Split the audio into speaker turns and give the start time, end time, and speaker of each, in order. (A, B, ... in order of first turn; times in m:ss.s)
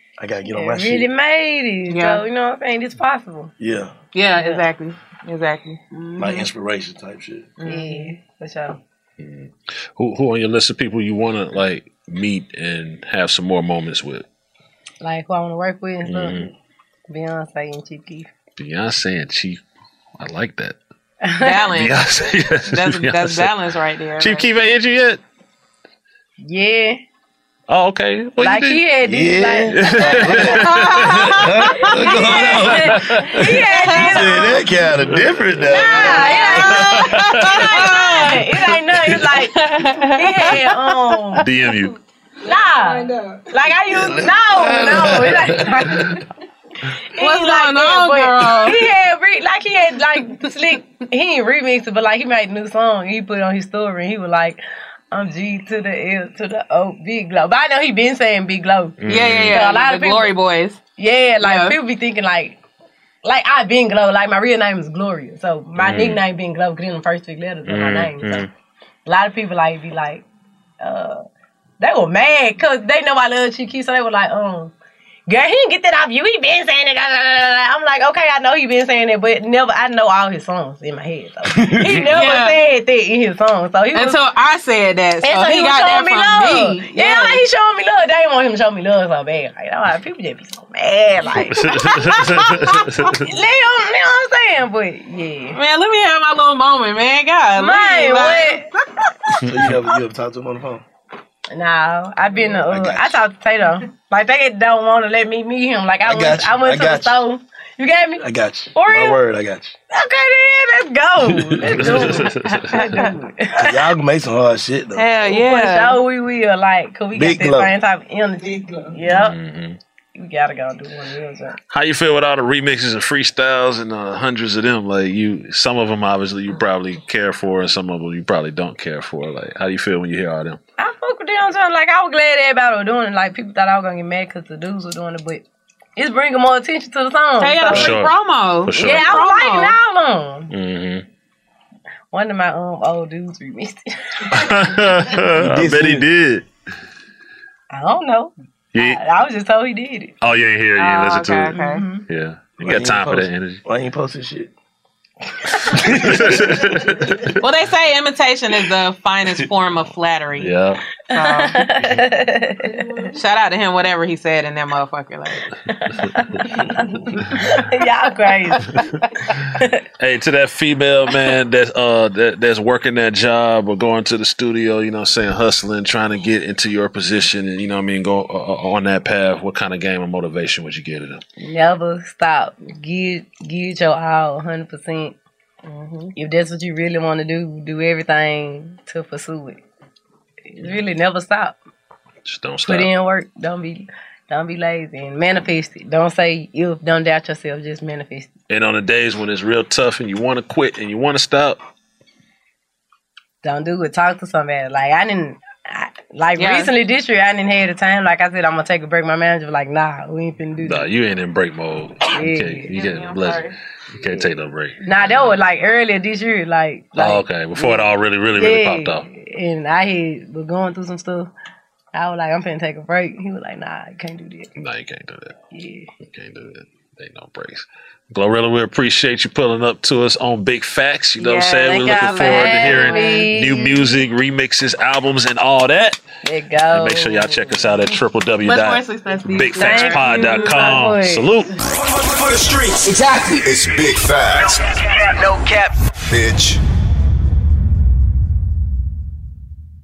0:00.2-0:01.1 A
0:00.5-0:03.5 B
0:01.9-0:02.2 C
0:03.6-0:03.9 A
0:04.1-0:06.5 C
0:04.4-0:04.6 B
0:06.2-0:07.6 A
0:07.6-0:08.2 C
0:07.6-0:08.8 B
0:09.2-0:14.2 D
0:15.0-0:16.5 B
0:16.0-0:16.5 D
0:17.1-0:18.3 B
0:18.6-0:19.6 D
0:20.2-0:20.8 D
0:21.2-0:21.7 B
0:21.4-0:22.0 C
0:21.8-0:23.6 D
0:22.6-0:24.5 C
0:24.2-0:25.2 D
0:26.4-0:27.0 B
0:27.7-0:28.8 D
0:28.4-0:30.4 B
0:29.0-0:33.0 A
0:29.7-0:31.3 D
0:30.7-0:32.6 C
0:32.4-0:34.6 B
0:32.4-0:33.5 D
0:33.3-0:34.4 C
0:34.0-0:36.5 A
0:35.0-0:37.6 D
0:35.7-0:41.4 B
0:36.0-0:38.5 C
0:39.3-0:40.8 C
0:41.4-0:42.0 D
0:42.4-0:46.2 B
0:43.9-0:45.4 A
0:47.2-0:54.6 B
0:47.2-0:48.9 C
0:55.1-1:00.3 B
0:59.0-0:59.6 D
0:59.0-1:00.8 C
1:01.0-1:02.6 B
1:01.4-1:01.8 C
1:03.2-1:08.5 B
1:05.8-1:06.2 D
1:07.7-1:08.5 D
1:09.1-1:10.2 B
1:10.8-1:11.2 B
1:11.8-1:14.7 B
1:15.3-1:24.2 B
1:21.7-1:22.0 A
1:22.1-1:22.6 C
1:23.9-1:27.4 C
1:25.2-1:35.6 B
1:31.4-1:33.3 D
1:35.5-1:38.6 C
1:37.6-1:38.7 B
1:39.4-1:40.8 A
1:41.5-1:48.2 B
1:42.6-1:43.2 A
1:46.0-1:47.2 A
1:48.2-1:49.8 A
1:48.7-1:49.2 B
1:49.9-1:53.9 B
1:51.6-1:53.0 D
1:51.9-1:53.2 C
1:53.6-1:55.2 A
1:55.0-1:56.0 C
1:55.2-1:59.4 B
1:57.1-1:57.7 A
1:59.0-1:59.8 D
2:00.2-2:01.6 B
2:01.7-2:10.6 D
2:10.8-2:15.4 B
2:16.0-2:17.9 B
2:17.4-2:19.8 C
2:17.7-2:18.1 D
2:18.7-2:19.2 D
2:18.8-2:20.5 B
2:20.5-2:21.0 D
2:22.1-2:24.7 B
2:24.3-2:26.5 D
2:25.3-2:26.0 A
2:27.7-2:30.1 B
2:28.7-2:29.0 D
2:30.2-2:33.6 D
2:30.8-2:31.9 C
2:32.6-2:34.5 A
2:35.7-2:37.3 D
2:35.8-2:36.6 A
2:37.4-2:40.5 C
2:40.4-2:40.8 D
2:41.1-2:41.6 C
2:41.1-2:42.9 B
2:43.1-2:45.5 C
2:45.7-2:48.8 B
2:49.5-2:49.8 B
2:50.0-3:01.2 D
3:01.4-3:05.2 B
3:05.7-3:06.1 C
3:06.2-3:09.6 B
3:10.5-3:11.6 B
3:12.2-3:12.9 D
3:12.6-3:18.3 B
3:18.5-3:21.6 D
3:23.4-3:30.9 B
3:26.4-3:26.7 C
3:30.6-3:34.8 D
3:32.1-3:32.7 B
3:32.7-3:33.6 C
3:34.8-3:41.3 B
3:37.0-3:39.1 D
3:41.9-3:44.5 B
3:44.6-3:45.4 D
3:45.5-3:45.9 B
3:46.0-3:56.0 D
3:51.2-3:53.3 C
3:51.6-3:53.9 B
3:56.2-3:57.9 B
3:56.7-4:01.5 D
3:58.4-4:00.8 C
3:59.6-4:01.5 B
4:01.7-4:06.6 E